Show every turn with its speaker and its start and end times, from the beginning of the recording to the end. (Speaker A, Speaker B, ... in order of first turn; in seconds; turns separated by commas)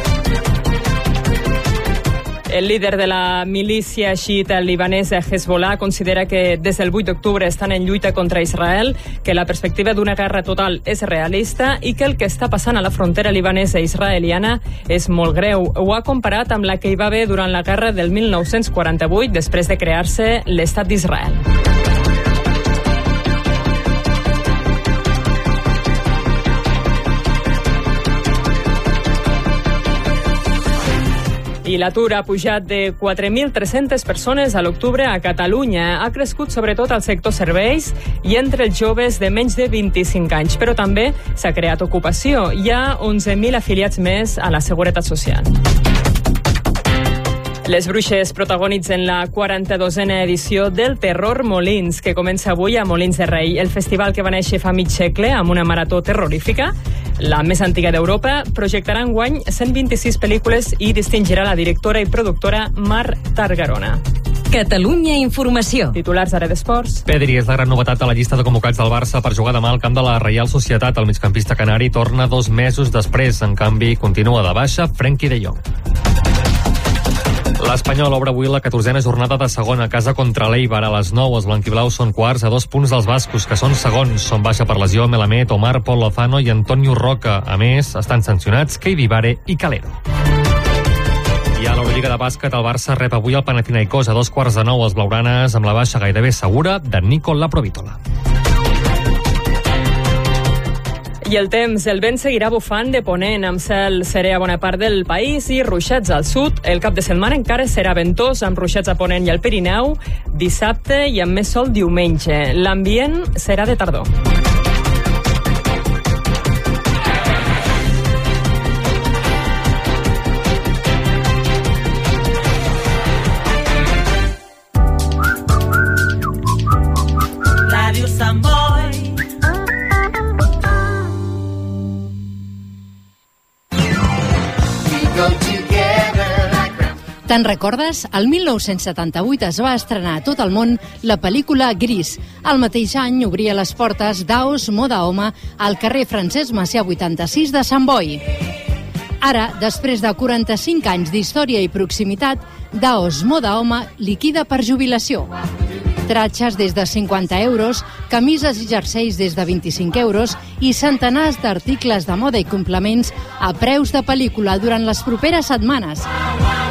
Speaker A: 2.5-21.4, Speaker A: 31.6-45.5, Speaker A: 47.6-64.0, Speaker B: 64.5-66.0, Speaker A: 66.0-67.0, Speaker C: 67.0-75.6, Speaker C: 77.6-90.0, Speaker C: 91.6-98.0, Speaker A: 101.2-114.1, Speaker B: 127.9-128.8, Speaker D: 137.2-148.2, Speaker D: 149.2-155.3, Speaker D: 156.0-166.1